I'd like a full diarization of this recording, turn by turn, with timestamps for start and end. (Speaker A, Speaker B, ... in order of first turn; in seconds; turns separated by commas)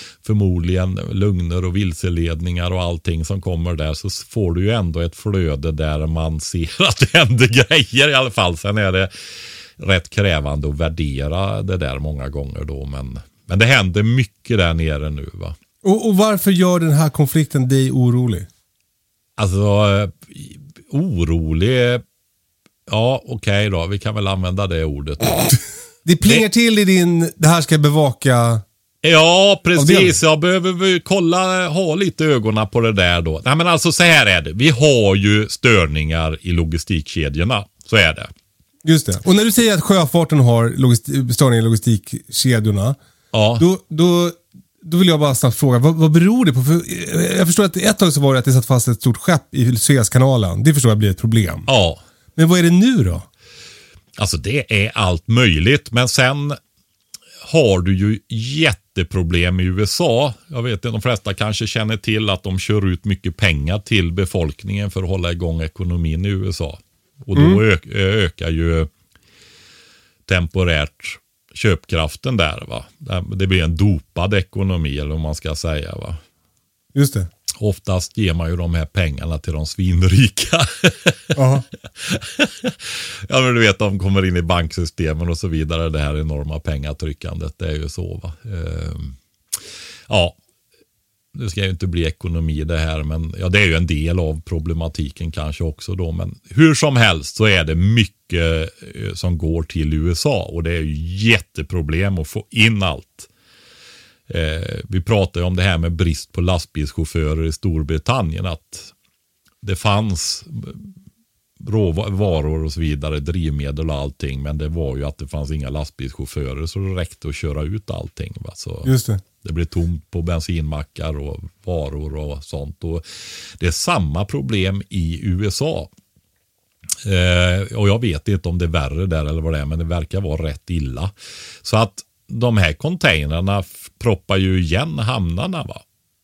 Speaker A: 0.2-9.1, Speaker A: 9.8-15.6, Speaker B: 15.8-18.5, Speaker A: 19.4-22.0, Speaker A: 22.9-25.6, Speaker B: 26.1-28.6, Speaker A: 29.0-38.3, Speaker B: 29.8-30.2, Speaker B: 38.8-43.0, Speaker A: 43.3-43.6, Speaker B: 43.6-51.7, Speaker A: 51.7-52.0, Speaker B: 52.4-53.3, Speaker A: 54.2-56.6, Speaker A: 57.4-68.9, Speaker B: 67.3-67.6, Speaker A: 70.3-76.2, Speaker B: 76.9-77.3, Speaker A: 77.6-81.3, Speaker B: 81.3-81.7, Speaker A: 82.0-89.2, Speaker A: 90.1-90.4, Speaker A: 91.3-103.3, Speaker A: 104.3-108.9, Speaker A: 109.6-110.9, Speaker A: 111.6-123.0, Speaker B: 118.8-119.2, Speaker A: 123.6-125.9, Speaker A: 127.0-131.1, Speaker A: 131.6-135.8